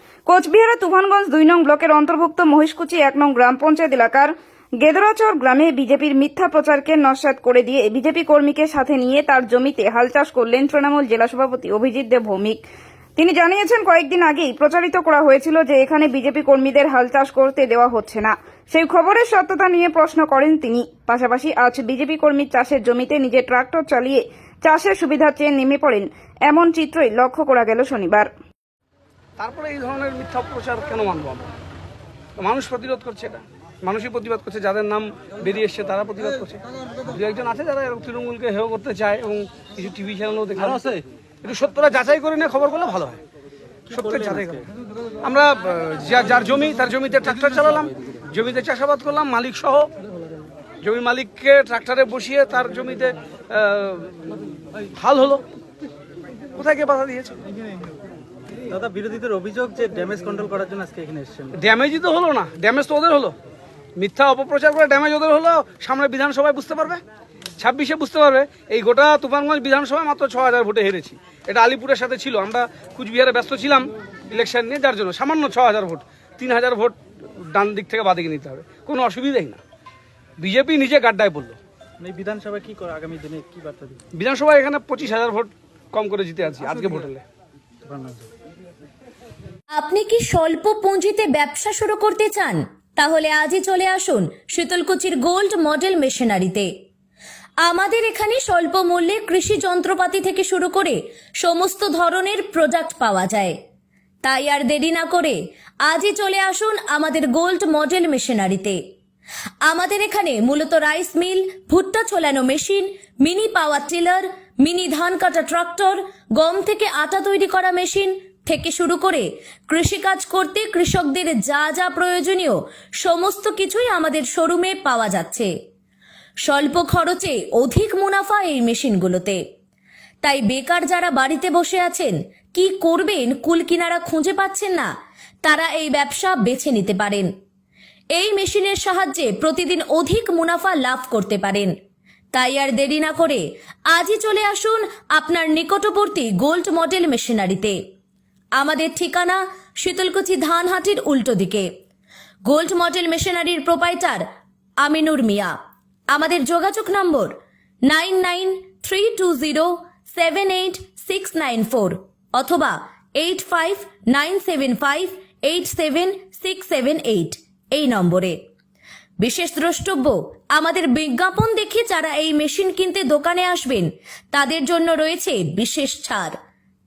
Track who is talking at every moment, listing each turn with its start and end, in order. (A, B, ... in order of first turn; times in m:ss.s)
0:00.3-0:12.6 A
0:13.2-0:28.3 A
0:29.4-0:31.5 B
0:32.4-0:40.8 B
0:40.6-0:41.0 C
0:41.4-0:43.2 B
0:43.9-0:44.6 C
0:43.9-0:44.6 B
0:45.2-0:49.9 B
0:50.8-0:54.1 B
0:55.0-0:55.4 B
0:56.6-0:57.4 B
0:58.7-1:01.5 C
1:01.6-1:03.3 B
1:04.0-1:07.0 B
1:07.6-1:17.0 B
1:17.5-1:19.6 B
1:20.4-1:21.6 B
1:22.0-1:24.0 C
1:24.2-1:27.2 B
1:27.8-1:28.2 C
1:29.7-1:36.7 D
1:37.6-1:43.6 D
1:44.2-1:48.8 D
1:49.6-2:05.5 D
2:06.4-2:09.4 D
2:10.2-2:14.9 D
2:15.4-2:17.3 D
2:18.1-2:21.7 D
2:22.3-2:27.8 D
2:28.6-2:31.7 D
2:32.4-2:34.2 D
2:34.8-2:35.5 D
2:36.1-2:48.4 D
2:49.2-2:56.3 D